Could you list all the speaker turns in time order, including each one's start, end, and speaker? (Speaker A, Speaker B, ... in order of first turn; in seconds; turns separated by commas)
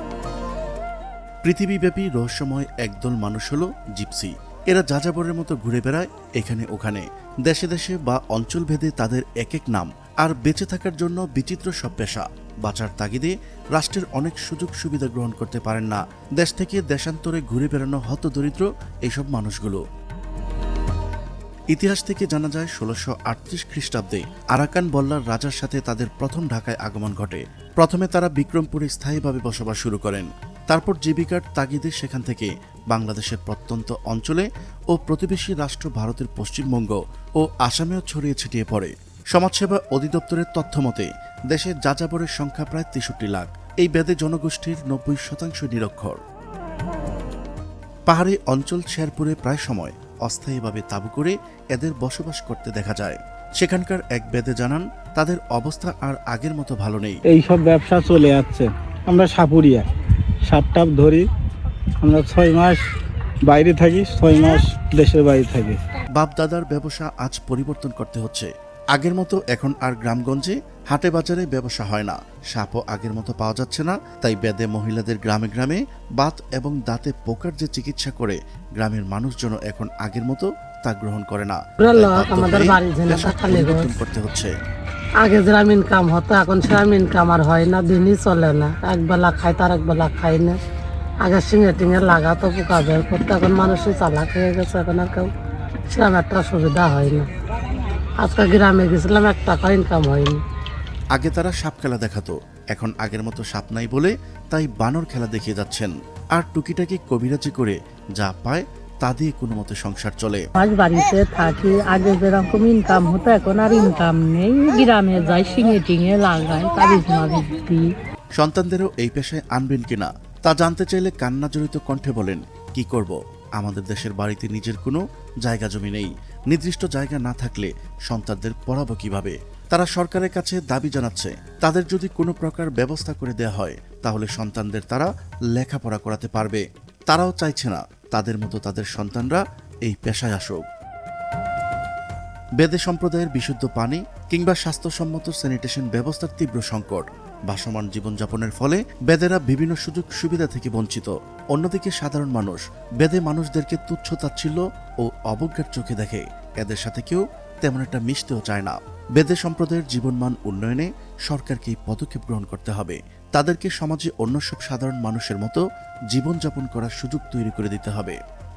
Speaker A: 1.4-19.8, Speaker A: 21.7-46.2, Speaker A: 48.1-57.2, Speaker B: 57.3-59.9, Speaker B: 60.5-61.3, Speaker B: 62.0-62.8, Speaker B: 63.5-65.8, Speaker A: 66.2-84.5, Speaker C: 81.8-83.9, Speaker C: 85.2-90.6, Speaker C: 91.2-95.3, Speaker C: 95.9-97.3, Speaker C: 98.2-100.4, Speaker A: 101.1-110.4, Speaker D: 110.5-117.9, Speaker A: 118.4-140.6, Speaker A: 142.6-168.2